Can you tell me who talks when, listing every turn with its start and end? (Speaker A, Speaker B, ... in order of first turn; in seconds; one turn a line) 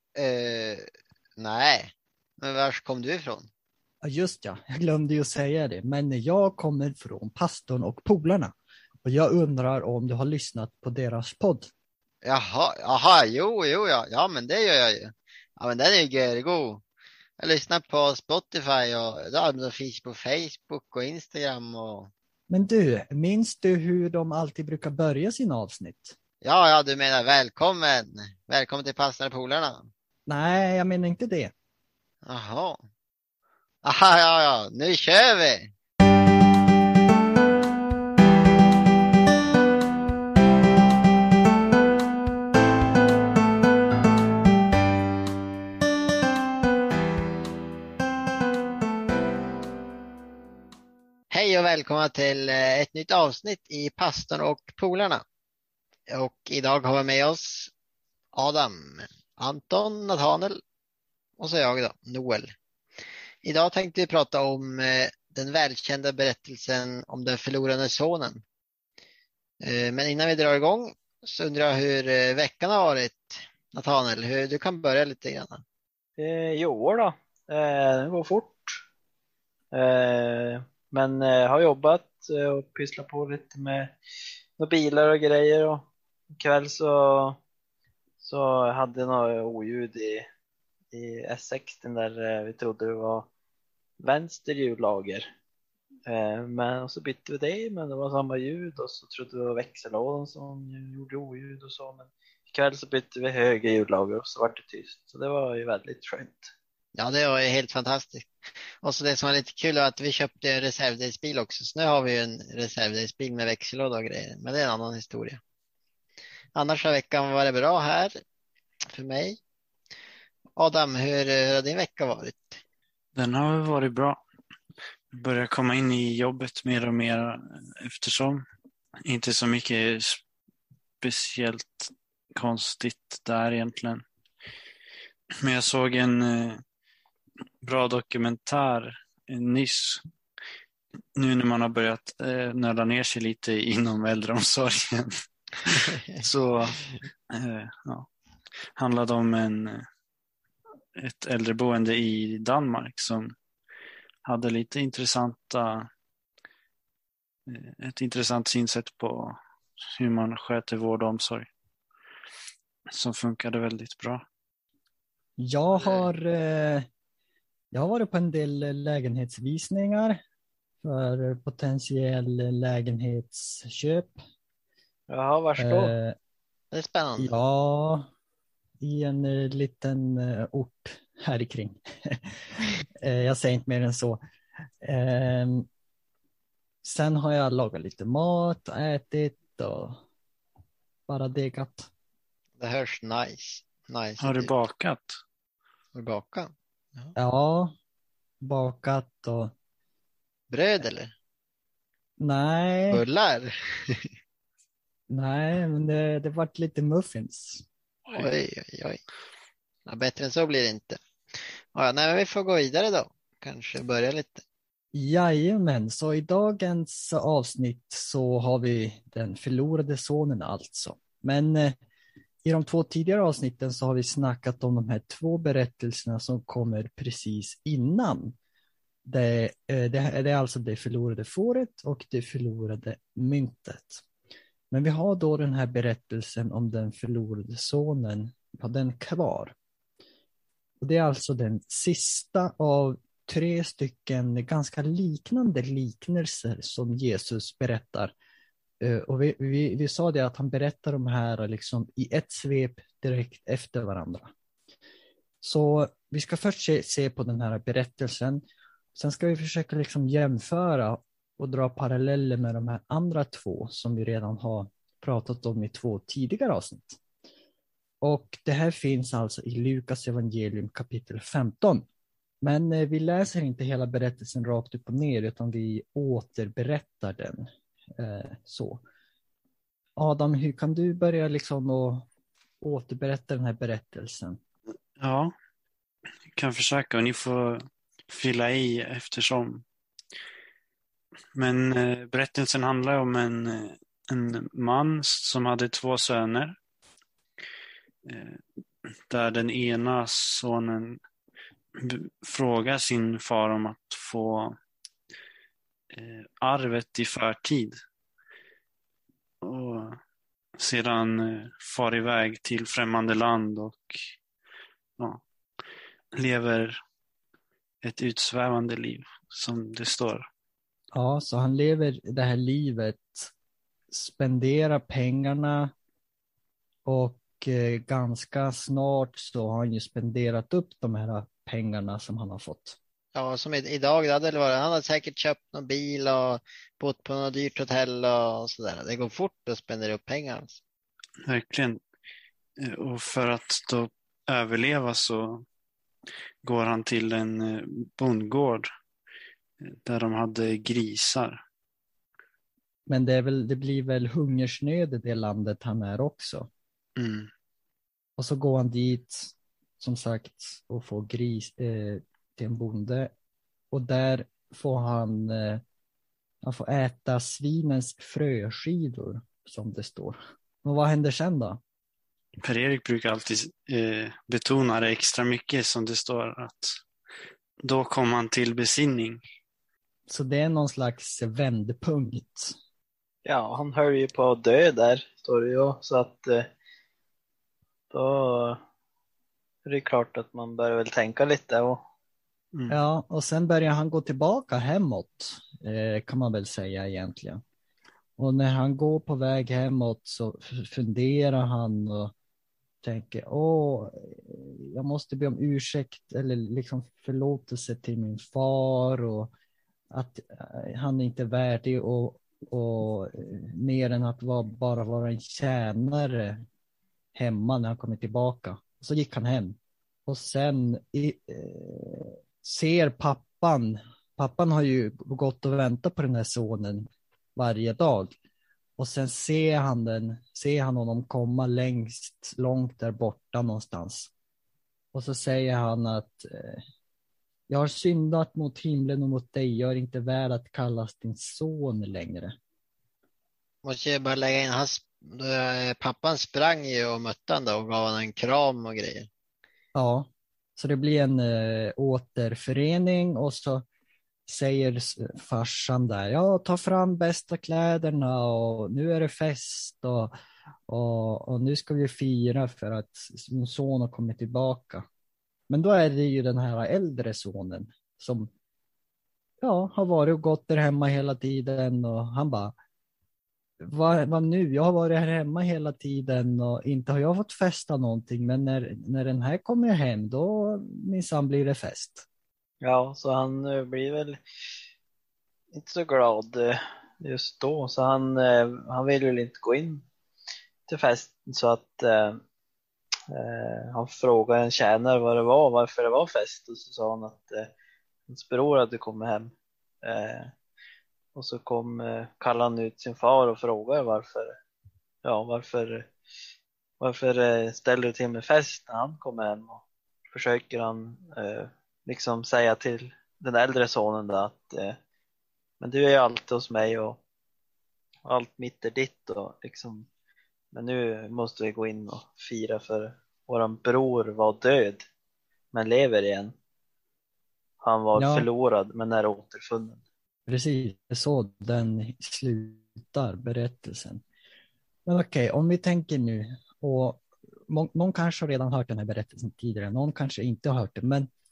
Speaker A: 0.1-0.8
Speaker A: 1.4-3.5
Speaker B: 4.0-11.7
Speaker A: 12.2-16.8
Speaker A: 17.4-22.1
Speaker B: 22.5-26.2
Speaker A: 26.4-29.9
Speaker B: 30.3-31.5
Speaker A: 32.2-32.8
Speaker A: 33.8-35.7
Speaker A: 51.3-55.2
Speaker A: 56.1-57.7
Speaker A: 58.3-60.6
Speaker A: 61.4-62.5
Speaker A: 63.4-68.4
Speaker A: 69.6-75.6
Speaker C: 76.2-78.8
Speaker C: 79.7-84.0
Speaker C: 84.6-87.4
Speaker C: 88.2-90.3
Speaker C: 90.9-93.3
Speaker C: 94.0-95.3
Speaker C: 96.1-106.5
Speaker A: 106.9-108.3
Speaker A: 108.8-115.4
Speaker A: 116.5-118.1
Speaker A: 118.9-119.4
Speaker A: 120.5-122.6
Speaker D: 123.1-124.2
Speaker D: 125.1-128.4
Speaker D: 129.0-130.2
Speaker D: 131.0-134.0
Speaker D: 135.4-136.6
Speaker D: 137.6-140.0
Speaker D: 141.2-148.1
Speaker A: 145.9-146.2
Speaker D: 148.8-149.8
Speaker D: 150.9-153.3
Speaker D: 154.2-155.9
Speaker D: 157.5-159.4
Speaker D: 160.0-161.5
Speaker D: 162.9-164.2
Speaker B: 165.4-166.9
Speaker B: 167.7-170.2
Speaker B: 170.8-174.2
Speaker C: 175.1-175.9
Speaker B: 175.6-176.2
Speaker A: 176.7-177.3
Speaker B: 177.2-178.1
Speaker B: 178.8-184.2
Speaker B: 184.8-185.7
Speaker B: 186.8-190.0
Speaker B: 191.1-191.9
Speaker A: 192.6-194.5
Speaker D: 194.2-195.1
Speaker A: 195.9-197.1
Speaker B: 197.2-197.7
Speaker B: 198.4-199.5
Speaker A: 200.5-201.1
Speaker B: 202.2-203.0
Speaker A: 202.9-204.1
Speaker B: 205.1-207.7
Speaker A: 208.1-209.0
Speaker A: 209.8-214.4
Speaker B: 214.9-221.8
Speaker B: 222.4-228.3
Speaker B: 229.0-234.0
Speaker B: 234.7-239.5
Speaker B: 240.8-248.1
Speaker B: 248.8-254.3
Speaker B: 255.4-267.0
Speaker B: 268.0-271.8
Speaker B: 272.4-278.8
Speaker B: 280.0-282.1
Speaker B: 282.6-284.4
Speaker D: 285.0-285.3
Speaker D: 286.3-289.6
Speaker D: 291.3-296.6
Speaker D: 298.1-298.4
Speaker D: 299.1-301.0
Speaker D: 301.8-304.6
Speaker D: 305.9-307.8
Speaker D: 309.4-310.0
Speaker D: 310.6-314.0
Speaker D: 316.1-316.8
Speaker D: 317.8-320.3
Speaker B: 320.9-323.3
Speaker B: 323.9-325.7
Speaker B: 326.8-332.8
Speaker A: 333.1-340.6
Speaker D: 341.2-341.8
Speaker D: 342.6-345.4
Speaker D: 346.4-348.7
Speaker D: 349.6-351.4
Speaker B: 352.9-356.5
Speaker D: 357.0-357.3
Speaker B: 358.2-363.1
Speaker B: 363.7-365.6
Speaker B: 366.4-371.6
Speaker D: 372.4-376.8
Speaker D: 377.6-379.2
Speaker B: 380.1-382.6
Speaker C: 383.2-386.5
Speaker C: 387.9-388.6
Speaker C: 389.6-391.8
Speaker B: 392.7-397.4
Speaker B: 398.2-402.1
Speaker B: 402.8-409.3
Speaker B: 409.9-416.4
Speaker B: 417.1-428.1
Speaker B: 428.8-434.1
Speaker B: 434.9-436.6
Speaker B: 437.5-442.3
Speaker A: 443.6-449.1
Speaker B: 449.7-453.6
Speaker B: 454.3-460.1
Speaker B: 460.7-464.9
Speaker B: 465.5-468.3
Speaker B: 469.4-472.5
Speaker B: 473.6-482.1
Speaker C: 482.6-484.2
Speaker C: 485.5-489.8
Speaker C: 490.7-492.2
Speaker C: 493.1-497.5
Speaker C: 498.1-500.3
Speaker C: 501.1-504.4
Speaker C: 505.0-505.9
Speaker C: 506.8-514.8
Speaker C: 515.6-517.0
Speaker C: 518.0-519.9
Speaker C: 520.5-524.8
Speaker C: 525.5-526.3
Speaker C: 527.6-529.8
Speaker B: 528.0-528.3
Speaker B: 530.3-534.0
Speaker B: 534.9-541.1